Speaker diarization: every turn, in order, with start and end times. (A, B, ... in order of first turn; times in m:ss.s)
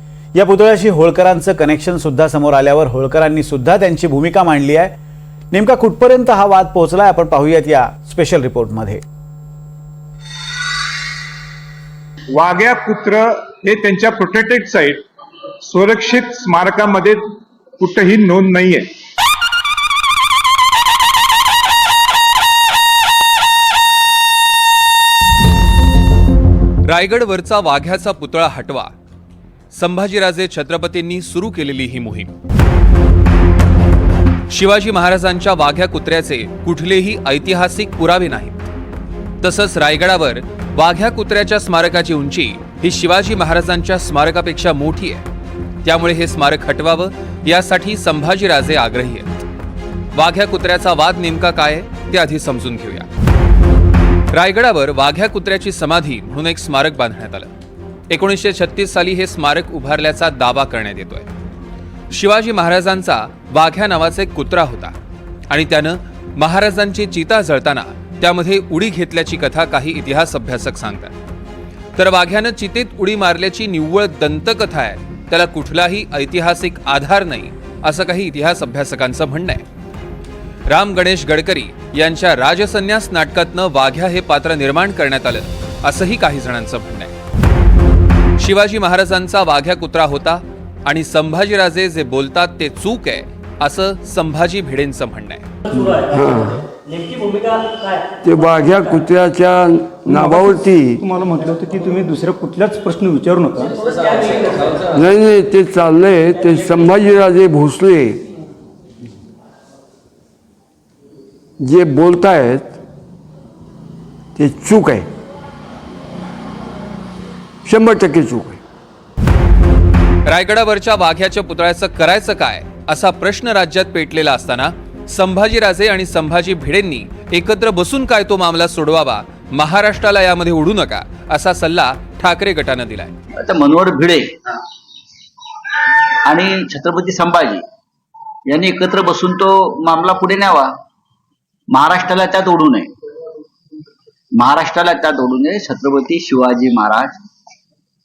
0:00.3-0:05.0 A
0:05.5-0:09.0 A
0:12.3-0:15.0 B
0:15.6-0:18.9 B
0:26.9-0:28.9 C
0:29.7-0:32.3 C
0:34.5-0:38.6 C
0:39.4-0:45.2 C
0:45.8-0:49.3 C
0:50.1-0:53.1 C
0:54.3-0:57.5 C
0:58.1-1:01.3 C
1:02.1-1:05.0 C
1:05.5-1:11.1 C
1:12.0-1:19.6 C
1:20.7-1:27.1 C
1:28.4-1:35.5 C
1:36.1-1:36.5 D
1:38.2-1:41.0 D
1:40.2-1:43.8 E
1:45.0-1:48.2 D
1:51.6-1:52.8 D
1:54.4-1:55.1 D
1:57.6-1:58.6 D
2:00.3-2:13.1 C
2:13.4-2:14.4 F
2:16.3-2:17.6 F
2:18.5-2:20.8 F
2:21.7-2:22.9 F
2:24.4-2:27.2 F